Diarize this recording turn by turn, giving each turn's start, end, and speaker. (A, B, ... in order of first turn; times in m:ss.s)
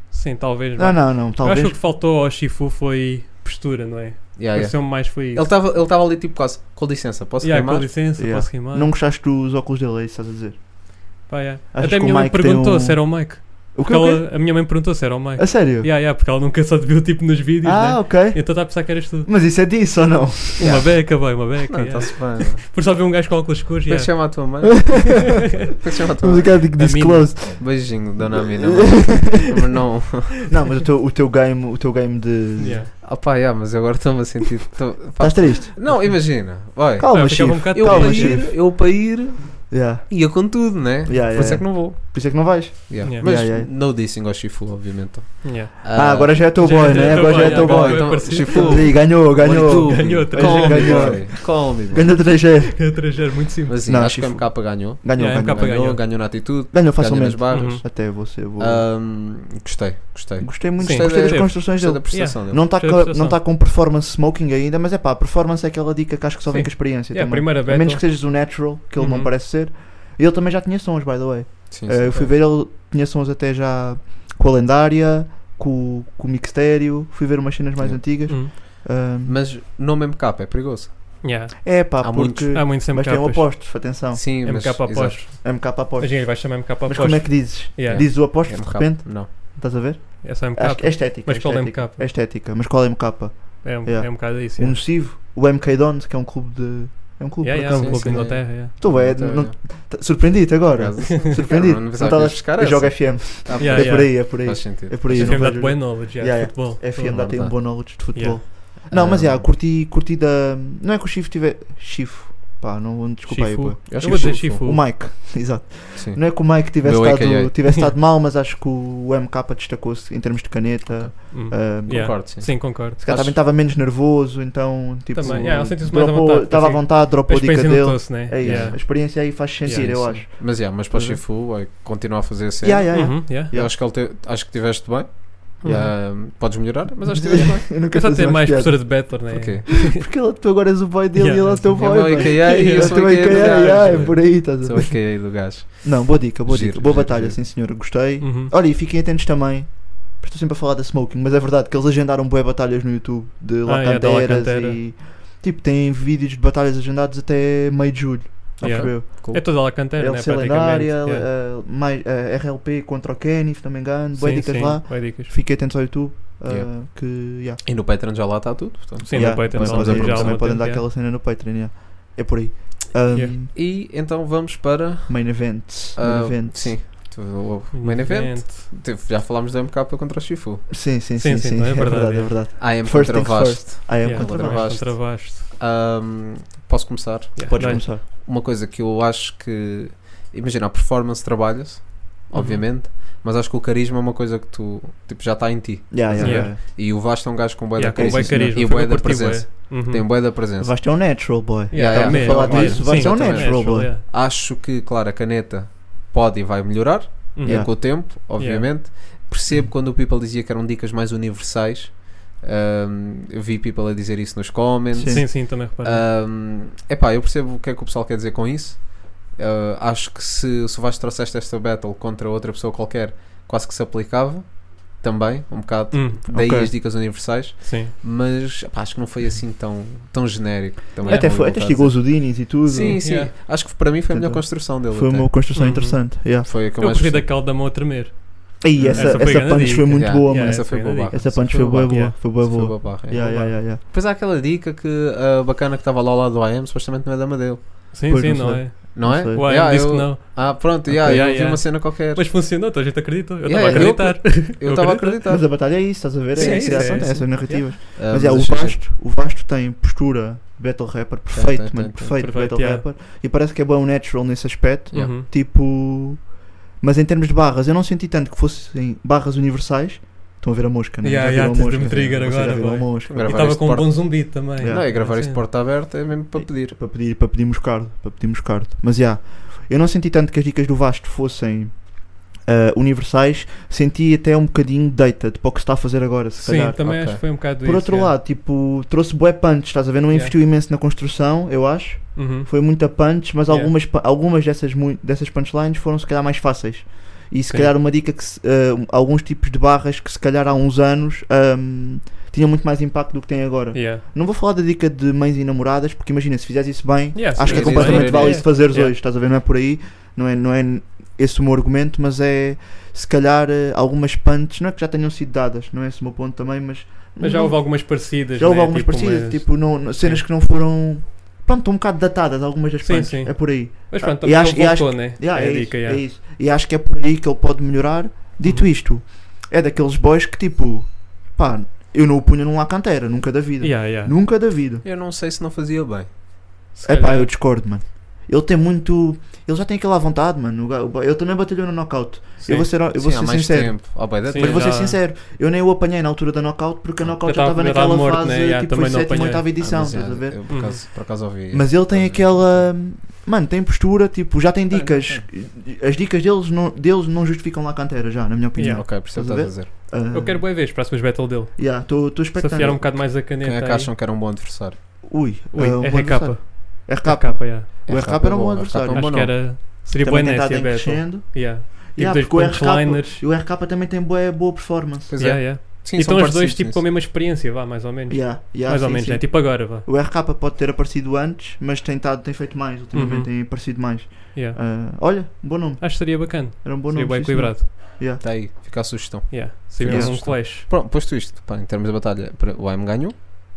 0:00.1-0:05.5 A
0:00.8-0:01.8 B
0:04.4-0:08.0 C
0:07.4-0:08.9 A
0:08.2-0:15.9 B
0:11.3-0:19.3 A
0:17.6-0:20.9 B
0:20.6-0:24.6 A
0:20.6-0:22.6 C
0:23.9-0:26.7 C
0:24.6-0:25.1 B
0:26.2-0:29.5 B
0:26.8-0:27.6 A
0:27.5-0:30.5 C
0:30.5-0:32.9 B
0:32.6-0:32.9 A
0:33.0-0:52.1 C
0:35.2-0:39.1 B
0:35.9-0:36.3 A
0:37.1-0:38.5 A
0:39.7-0:43.7 B
0:45.4-0:51.3 A
0:45.9-0:53.3 B
0:52.1-0:54.0 A
0:53.7-1:02.6 C
0:53.8-0:58.9 B
0:55.2-0:56.0 A
0:57.5-0:57.8 A
1:00.4-1:19.4 B
1:00.8-1:03.4 A
1:06.5-1:09.3 A
1:11.7-1:12.1 C
1:17.8-1:22.7 C
1:21.2-1:21.8 A
1:21.6-1:24.7 B
1:22.5-1:23.9 A
1:24.1-1:25.2 C
1:24.4-1:28.1 A
1:25.4-2:11.2 B
1:27.9-1:29.3 C
1:30.2-1:32.1 A
1:33.6-1:34.8 A
1:37.4-1:38.7 A
1:37.6-1:39.6 C
1:40.7-1:45.6 C
1:43.6-1:47.2 A
1:47.0-1:47.7 C
1:47.7-1:48.5 A
1:48.9-1:49.4 C
1:53.3-1:54.8 A
1:53.9-1:54.6 C
1:56.0-1:57.6 C
2:01.3-2:03.0 A
2:01.9-2:03.3 C
2:05.1-2:10.1 A
2:08.4-2:08.8 C
2:09.7-2:17.7 C
2:12.6-2:13.7 B
2:12.9-2:13.5 A
2:15.6-2:16.0 A
2:15.6-2:19.2 B
2:17.9-2:20.0 A
2:19.3-2:19.8 C
2:19.8-2:47.6 B
2:21.1-2:24.3 A
2:21.7-2:27.4 C
2:28.2-2:28.5 A
2:33.6-2:34.8 A
2:38.6-2:39.4 C
2:38.6-2:41.3 A
2:44.1-2:45.3 A
2:46.5-2:46.8 C
2:47.6-2:50.6 C
2:49.0-2:50.8 A
2:49.1-2:53.5 B
2:53.5-3:00.7 C
2:55.1-2:56.8 B
2:57.7-2:58.7 A
3:00.7-3:04.7 B
3:01.2-3:02.6 A
3:02.6-3:20.8 C
3:04.0-3:05.4 A
3:07.4-3:07.9 A
3:07.5-3:08.0 B
3:12.3-3:12.6 A
3:15.9-3:16.6 B
3:16.2-3:16.5 A
3:17.8-3:20.1 A
3:18.0-3:18.7 B
3:20.6-3:23.9 B
3:21.7-3:24.0 A
3:21.7-3:55.3 C
3:27.3-3:28.9 A
3:27.4-3:27.7 B
3:34.9-3:35.2 B
3:35.1-3:36.1 A
3:45.9-3:46.2 A
3:46.3-3:46.7 B
3:47.6-3:47.9 A
3:51.0-3:56.5 B
3:51.1-3:51.3 A
3:52.9-3:53.3 A
3:55.5-4:03.6 A
3:56.4-3:57.3 C
3:58.6-4:03.8 B
3:58.8-4:08.1 C
4:07.9-4:15.5 A
4:08.1-4:09.8 B
4:09.0-4:12.3 C
4:10.9-4:11.3 B
4:13.4-4:18.8 C
4:13.6-4:14.0 B
4:15.3-4:33.9 B
4:16.3-4:17.7 A
4:21.3-4:22.1 C
4:22.2-4:22.8 A
4:24.9-4:25.3 A
4:31.0-4:35.4 A
4:33.1-4:36.8 C
4:34.6-4:35.6 B
4:36.3-5:34.8 B
4:46.4-4:48.1 A
4:46.7-4:47.2 C
4:52.2-4:53.7 A
5:03.7-5:04.0 A
5:07.1-5:09.0 A
5:07.4-5:08.5 C
5:17.2-5:20.2 A
5:22.8-5:26.0 A
5:28.4-5:28.7 A
5:33.6-5:34.1 A
5:34.8-5:36.1 C
5:36.7-5:37.4 A
5:36.8-6:00.6 B
5:42.4-5:42.7 A
5:42.9-5:44.7 C
5:44.3-5:45.0 A
5:47.2-5:49.5 A
5:49.6-5:52.7 C
5:50.5-5:50.8 A
5:54.7-5:55.3 C
5:58.6-5:58.8 A
5:58.6-5:59.7 C
6:00.1-6:03.9 A
6:01.6-6:02.8 B
6:02.6-6:04.8 C
6:05.0-6:15.3 B
6:05.5-6:07.7 A
6:07.9-6:09.4 C
6:08.9-6:13.2 A
6:15.1-6:16.8 C
6:15.2-6:19.9 A
6:18.1-6:28.2 B
6:22.9-6:23.8 A
6:24.3-6:24.6 A
6:25.8-6:27.7 A
6:28.2-6:33.1 C
6:29.3-6:30.7 A
6:29.8-6:30.2 B